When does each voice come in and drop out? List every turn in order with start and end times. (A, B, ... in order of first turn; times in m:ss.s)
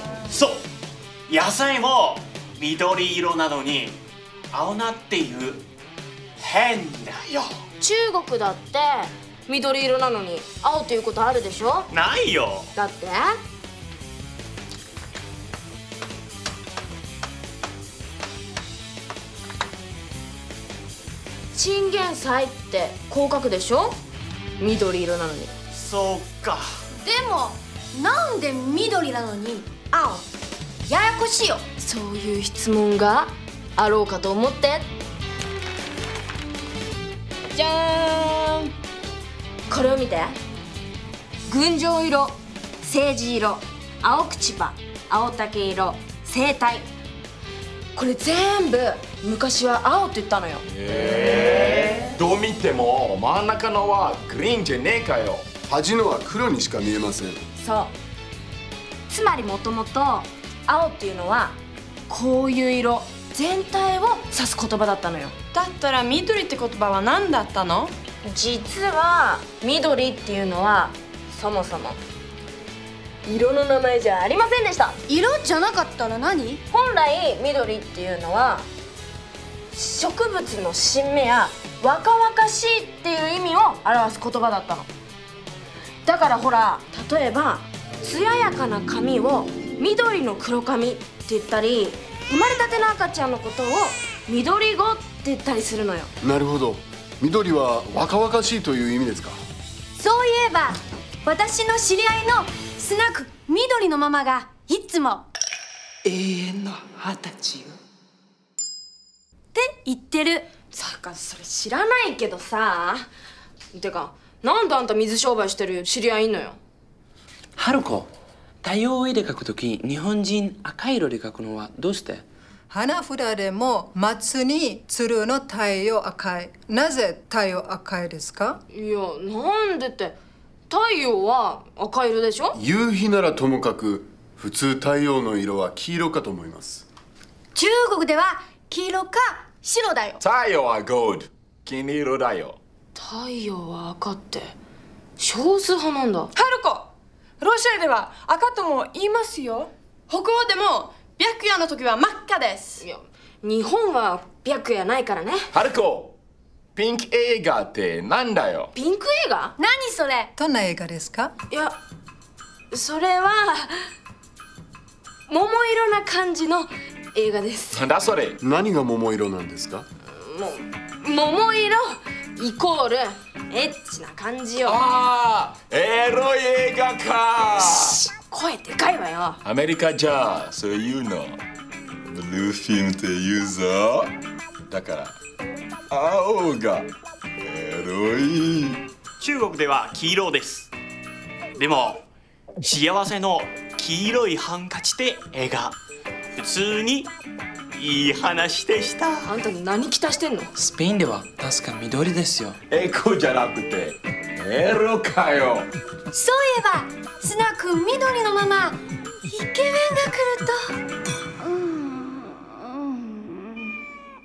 0:00.3-0:00.6 A
0:01.3-0:04.0 A
0:04.5-0:05.6 A
0:06.4-0:07.5 A
0:07.8-0:11.9 B
0:11.9-0:12.7 A
0:12.7-0:13.4 B
0:21.5-0:24.0 B
0:24.6-0:25.5 B
0:25.7-0:26.8 A
0:27.0-0:30.3 C
0:30.8-0:31.6 C
0:31.8-0:34.9 B
0:37.5-0:38.7 B
0:39.7-0:40.4 B
0:41.5-0:46.9 B
0:48.0-0:50.7 B
0:50.7-0:55.5 D
0:55.6-0:57.4 E
0:57.6-0:58.0 B
0:59.1-1:01.6 B
1:02.1-1:05.4 B
1:05.5-1:07.9 F
1:08.2-1:12.0 B
1:13.3-1:15.0 B
1:15.1-1:16.6 C
1:16.7-1:18.6 B
1:19.7-1:24.9 B
1:26.1-1:36.1 B
1:36.2-1:39.4 E
1:40.0-1:45.3 C
1:46.0-1:47.8 G
1:49.5-1:50.5 C
1:50.7-1:53.1 B
1:53.7-1:56.6 B
1:57.6-1:58.1 G
1:58.6-2:02.2 G
2:02.7-2:08.6 H
2:08.7-2:10.2 B
2:10.7-2:12.6 B
2:12.6-2:16.8 E
2:17.6-2:20.2 C
2:20.2-2:22.6 D
2:23.0-2:24.6 B
2:25.2-2:26.3 B
2:26.4-2:32.8 F
2:32.8-2:35.5 B
2:35.5-2:36.2 D
2:36.8-2:38.7 D
2:38.7-2:39.6 B
2:39.6-2:40.3 C
2:40.4-2:41.3 H
2:41.5-2:41.8 B
2:42.7-2:43.9 B
2:45.3-2:47.9 B
2:47.7-2:48.4 D
2:48.4-2:49.9 E
2:50.1-2:54.8 B
2:54.7-2:58.0 D
2:57.6-2:59.4 B
2:59.4-3:01.4 D
3:02.1-3:04.1 D
3:04.7-3:05.2 D
3:05.9-3:06.9 D
3:07.4-3:08.8 D
3:09.2-3:10.7 A
3:11.6-3:12.0 A
3:12.6-3:15.7 A
3:16.4-3:17.1 A
3:17.8-3:19.3 A
3:19.3-3:20.5 B
3:20.6-3:22.6 G
3:22.7-3:25.7 D
3:26.1-3:30.8 C
3:31.5-3:33.4 C